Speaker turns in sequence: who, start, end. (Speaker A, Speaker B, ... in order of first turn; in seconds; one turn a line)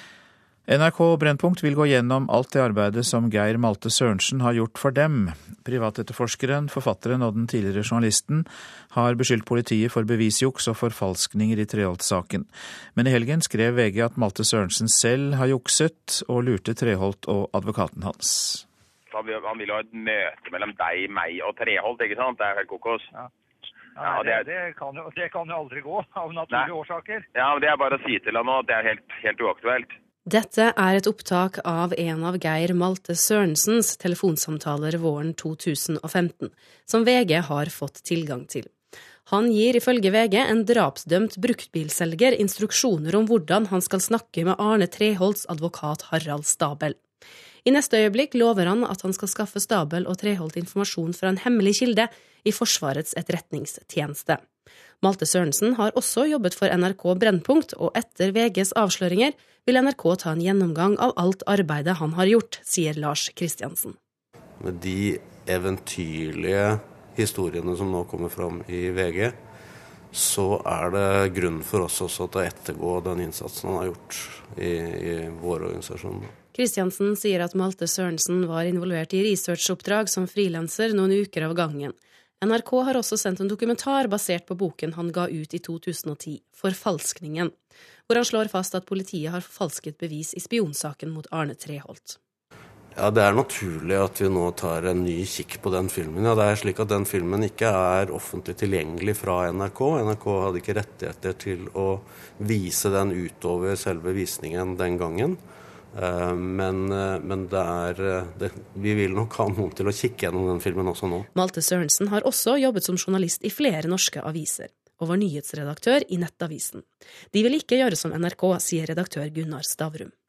Speaker A: 0.7-18.6
Speaker B: 19.1-23.1
Speaker C: 24.0-27.2
Speaker B: 24.0-24.4
Speaker B: 27.3-29.9
Speaker D: 30.3-38.7
Speaker D: 39.2-47.0
Speaker D: 47.6-54.4
Speaker D: 55.0-64.0
Speaker E: 64.6-69.3
Speaker E: 70.1-76.3
Speaker D: 76.5-87.5
Speaker D: 88.1-92.2
Speaker E: 93.0-105.4
Speaker E: 105.9-111.3
Speaker D: 111.3-120.1